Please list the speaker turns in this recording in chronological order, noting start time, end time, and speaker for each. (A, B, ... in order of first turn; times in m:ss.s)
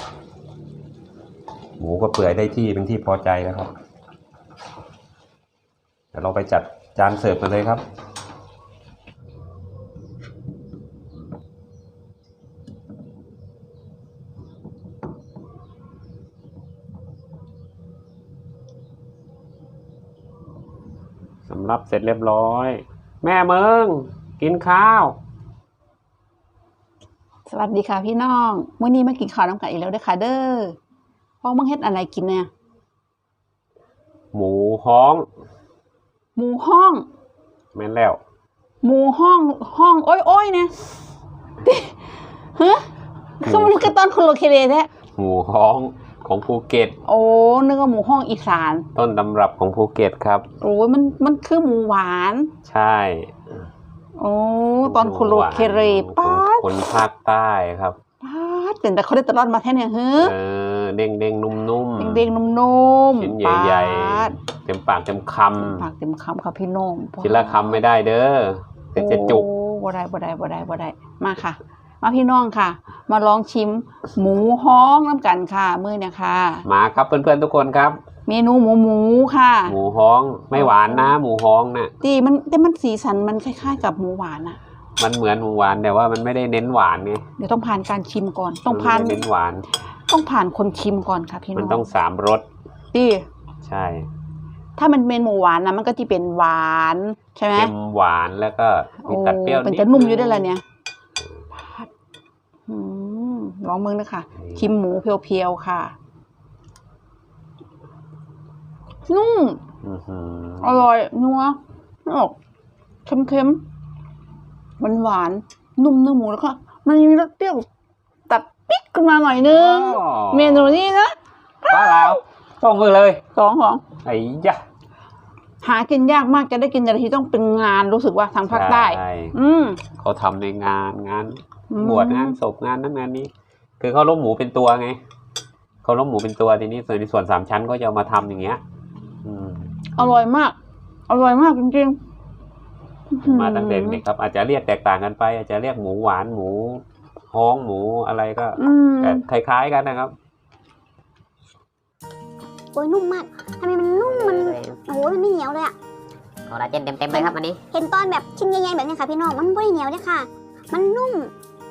0:01.8-0:03.7 A
0:06.1-0:07.8 A
0:21.5-0:25.2 A
0:27.5-0:30.8 B
0:31.4-0:32.5 B
0:34.3-0:35.3 A
0:36.4-0:37.1 B
0:37.8-0:38.2 A
0:38.8-0:40.7 B
0:41.6-0:42.0 B
0:42.6-0:42.9 B
0:43.4-0:44.9 B
0:43.4-0:43.9 A
0:45.2-0:47.0 A
0:47.0-0:48.9 B
0:49.0-0:50.5 A
0:50.6-0:52.5 B
0:52.6-0:53.5 A
0:54.2-0:56.7 B
0:54.8-0:58.0 A
0:58.2-1:00.4 B
1:00.2-1:02.2 A
1:02.0-1:04.3 B
1:03.2-1:05.9 A
1:05.6-1:07.8 B
1:07.2-1:09.5 A
1:09.0-1:16.6 B
1:16.6-1:18.0 A
1:18.3-1:19.8 B
1:19.7-1:21.9 A
1:20.6-1:21.1 B
1:22.0-1:24.6 B
1:25.0-1:27.2 A
1:27.4-1:29.2 B
1:28.7-1:29.7 A
1:30.1-1:31.8 B
1:31.6-1:32.5 A
1:32.9-1:33.3 B
1:33.6-1:34.1 A
1:34.8-1:37.7 B
1:37.5-1:40.5 A
1:39.0-1:40.6 B
1:42.7-1:46.0 B
1:49.1-1:49.6 B
1:49.8-1:50.9 A
1:50.6-1:52.4 B
1:53.1-1:53.6 B
1:54.8-1:57.7 B
1:58.3-2:01.2 B
1:59.4-2:00.9 A
2:01.6-2:03.2 A
2:01.7-2:02.2 B
2:03.3-2:03.8 B
2:04.0-2:04.6 A
2:05.6-2:09.8 B
2:08.5-2:09.4 A
2:09.9-2:15.0 A
2:11.7-2:12.4 B
2:15.8-2:18.6 A
2:19.2-2:20.1 A
2:20.0-2:20.6 B
2:21.1-2:22.0 B
2:23.1-2:24.0 B
2:23.2-2:30.2 A
2:28.6-2:29.2 B
2:32.7-2:35.7 C
2:34.0-2:34.8 D
2:36.5-2:37.6 D
2:37.1-2:41.3 C